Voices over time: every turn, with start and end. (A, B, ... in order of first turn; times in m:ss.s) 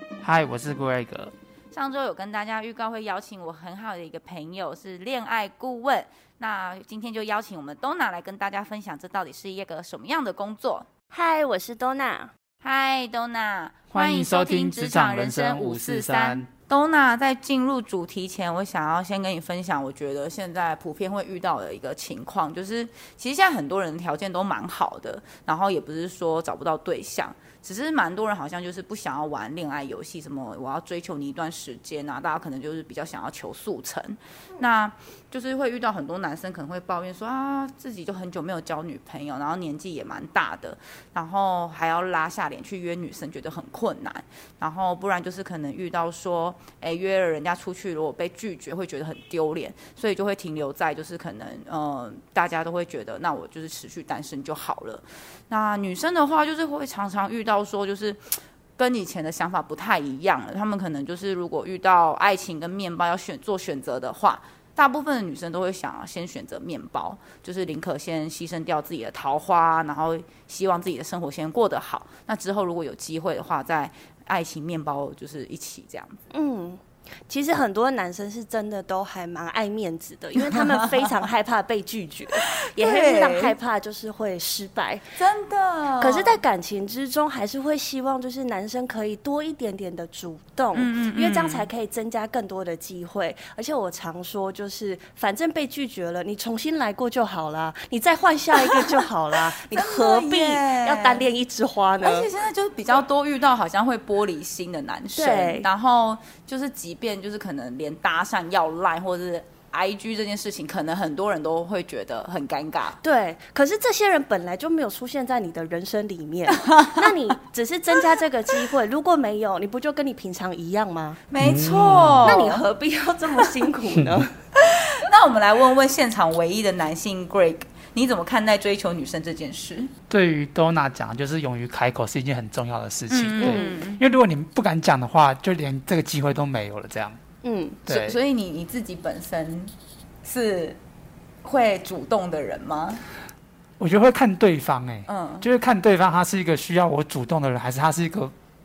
0:00.2-0:01.3 A
0:01.7-0:10.9 B
0:11.1-0:12.3 C
0:12.6-0:58.2 B
0:13.9-0:16.5 A
0:58.8-1:16.2 B
1:16.3-1:25.0 C
1:20.4-1:21.1 B
1:22.4-1:23.5 B
1:25.2-1:26.4 B
1:26.0-1:42.3 C
1:30.7-1:31.7 B
1:38.6-1:41.2 B
1:42.0-1:53.0 B
1:45.2-1:45.6 C
1:53.0-2:01.2 C
1:56.6-1:57.1 B
2:01.3-2:02.6 B
2:01.4-2:02.4 A
2:02.2-2:04.3 C
2:03.9-2:04.2 A
2:04.5-2:09.9 B
2:10.1-2:17.2 A
2:13.1-2:14.0 B
2:13.4-2:13.8 C
2:17.4-2:17.8 C
2:17.9-2:18.2 A
2:17.9-2:19.7 B
2:20.2-2:20.8 B
2:21.4-2:23.0 B
2:23.8-2:28.3 A
2:25.1-2:25.5 B